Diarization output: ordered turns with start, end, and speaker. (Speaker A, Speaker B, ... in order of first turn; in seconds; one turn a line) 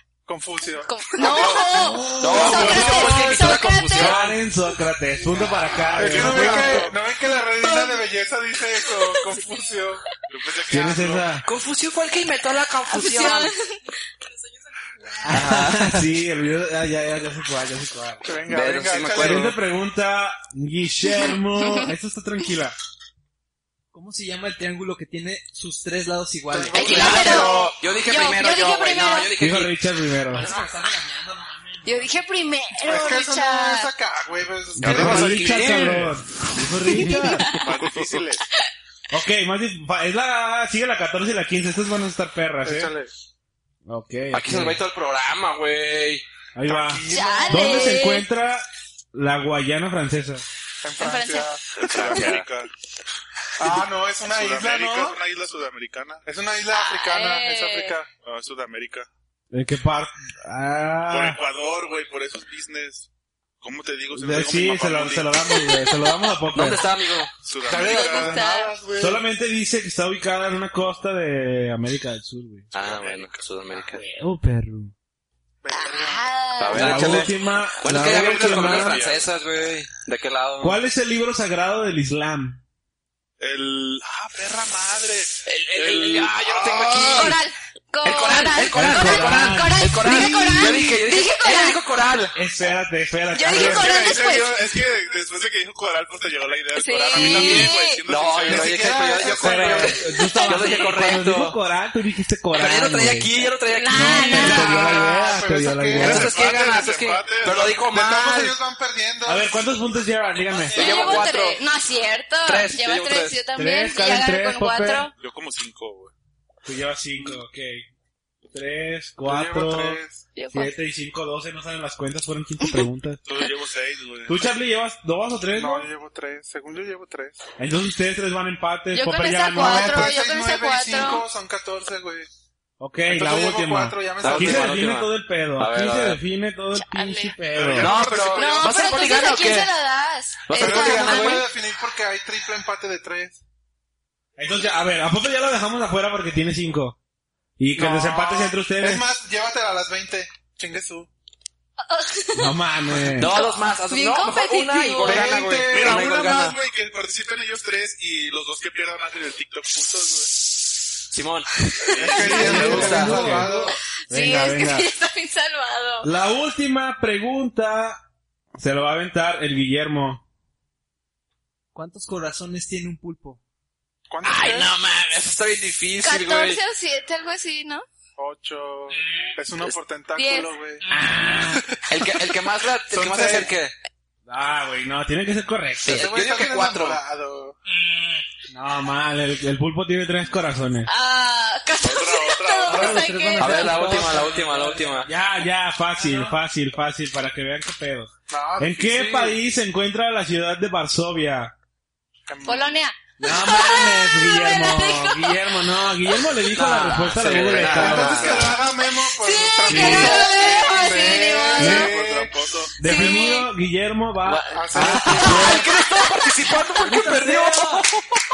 Speaker A: 0.2-3.5
Speaker B: 0.8-4.2
Speaker C: 1.3-1.6
Speaker D: 1.7-3.1
Speaker E: 2.2-4.3
Speaker C: 2.4-3.0
Speaker D: 3.9-6.9
Speaker C: 5.8-7.0
Speaker A: 5.9-10.0
Speaker B: 7.6-8.0
Speaker C: 10.2-11.3
Speaker D: 10.7-11.4
Speaker E: 11.4-13.5
Speaker B: 12.9-13.8
Speaker D: 15.3-18.3
Speaker E: 15.3-16.0
Speaker F: 15.4-16.0
Speaker A: 18.2-19.6
Speaker E: 18.5-19.6
Speaker D: 19.2-22.8
Speaker B: 21.6-21.9
Speaker F: 23.9-27.2
Speaker A: 26.5-27.8
Speaker B: 26.7-29.3
Speaker E: 26.8-29.7
Speaker D: 29.4-30.5
Speaker F: 30.3-32.2
Speaker B: 31.8-33.9
Speaker A: 32.8-35.8
Speaker D: 34.8-37.5
Speaker E: 34.8-36.1
Speaker C: 34.8-35.9
Speaker B: 36.9-37.6
Speaker C: 37.5-38.4
Speaker E: 37.5-38.2
Speaker D: 39.1-42.9
Speaker A: 42.6-43.1
Speaker D: 43.9-44.8
Speaker E: 44.3-46.2
Speaker D: 46.5-50.5
Speaker A: 46.6-48.0
Speaker B: 47.1-48.2
Speaker A: 50.8-52.3
Speaker B: 51.0-51.5
Speaker E: 51.8-52.5
Speaker C: 51.9-52.7
Speaker A: 53.6-55.2
Speaker C: 54.2-56.2
Speaker A: 56.2-58.1
Speaker B: 56.7-58.0
Speaker C: 58.2-59.1
Speaker D: 59.5-61.4
Speaker C: 61.1-63.1
Speaker C: 63.6-65.3
Speaker D: 64.1-66.8
Speaker B: 65.5-65.8
Speaker E: 66.5-67.3
Speaker C: 67.4-68.4
Speaker A: 67.6-69.2
Speaker B: 67.7-68.7
Speaker D: 69.0-72.7
Speaker E: 72.7-74.0
Speaker C: 72.7-73.4
Speaker D: 73.9-74.9
Speaker A: 75.6-77.2
Speaker B: 75.7-77.2
Speaker E: 76.6-80.8
Speaker D: 76.7-79.0
Speaker C: 77.9-79.3
Speaker D: 80.6-82.6
Speaker C: 83.4-87.4
Speaker E: 85.5-87.4
Speaker B: 87.0-91.8
Speaker E: 88.0-92.4
Speaker D: 88.7-90.9
Speaker D: 92.3-94.1
Speaker B: 93.3-94.6
Speaker C: 93.5-99.0
Speaker B: 96.7-98.0
Speaker D: 97.1-97.7
Speaker E: 97.2-101.6
Speaker A: 98.4-100.1
Speaker D: 99.4-103.3
Speaker B: 100.1-100.7
Speaker E: 102.5-104.7
Speaker B: 103.7-105.0
Speaker D: 103.9-106.3
Speaker A: 104.4-106.4
Speaker E: 106.0-108.5
Speaker C: 106.0-107.8
Speaker A: 107.8-109.5
Speaker D: 109.2-110.8
Speaker E: 110.7-111.6
Speaker B: 110.7-115.1
Speaker E: 112.4-113.4
Speaker D: 113.5-115.0
Speaker C: 115.2-116.1
Speaker D: 116.6-117.9
Speaker D: 118.5-120.0
Speaker A: 119.2-120.2
Speaker B: 120.3-120.7
Speaker D: 120.5-123.2
Speaker C: 123.2-124.5
Speaker D: 124.3-125.9
Speaker A: 125.5-127.4
Speaker D: 127.6-130.1
Speaker B: 128.9-131.2
Speaker A: 129.6-132.3
Speaker D: 132.8-137.9
Speaker A: 133.1-134.9
Speaker E: 134.2-136.2
Speaker B: 136.8-137.3
Speaker C: 137.5-138.8
Speaker E: 137.8-139.7
Speaker B: 138.3-141.5
Speaker E: 140.5-141.4
Speaker A: 140.5-143.4
Speaker D: 144.3-147.0
Speaker D: 147.6-149.0
Speaker A: 147.7-151.1
Speaker B: 151.8-152.6
Speaker D: 152.3-153.3
Speaker E: 153.1-156.6
Speaker B: 153.2-155.3
Speaker A: 155.0-156.6
Speaker C: 155.7-160.5
Speaker E: 161.1-163.5
Speaker C: 161.8-163.0
Speaker A: 161.9-163.8
Speaker D: 162.2-164.9
Speaker F: 162.4-163.7
Speaker B: 164.1-166.1
Speaker D: 166.0-168.0
Speaker D: 168.6-170.2
Speaker F: 171.7-173.4
Speaker A: 174.1-174.7
Speaker E: 174.2-176.6
Speaker B: 176.0-177.8
Speaker A: 178.2-180.8
Speaker B: 180.1-180.5
Speaker D: 180.9-181.7
Speaker E: 181.8-183.7
Speaker A: 182.9-183.5
Speaker D: 184.3-186.1
Speaker E: 185.8-187.0
Speaker A: 185.9-187.6
Speaker D: 188.5-190.9
Speaker B: 190.9-193.9
Speaker C: 191.8-193.0
Speaker F: 192.7-195.0
Speaker D: 192.7-194.2
Speaker E: 193.4-195.1
Speaker D: 195.0-201.5
Speaker A: 198.3-199.4
Speaker A: 202.3-202.8
Speaker B: 202.4-205.4
Speaker D: 203.2-208.5
Speaker E: 206.5-208.6
Speaker A: 207.3-212.5
Speaker B: 209.2-211.9
Speaker D: 209.6-210.2
Speaker C: 211.5-212.9
Speaker D: 211.6-211.9
Speaker D: 212.8-215.7
Speaker B: 212.8-213.5
Speaker E: 214.2-218.0
Speaker A: 214.5-215.7
Speaker F: 216.8-217.8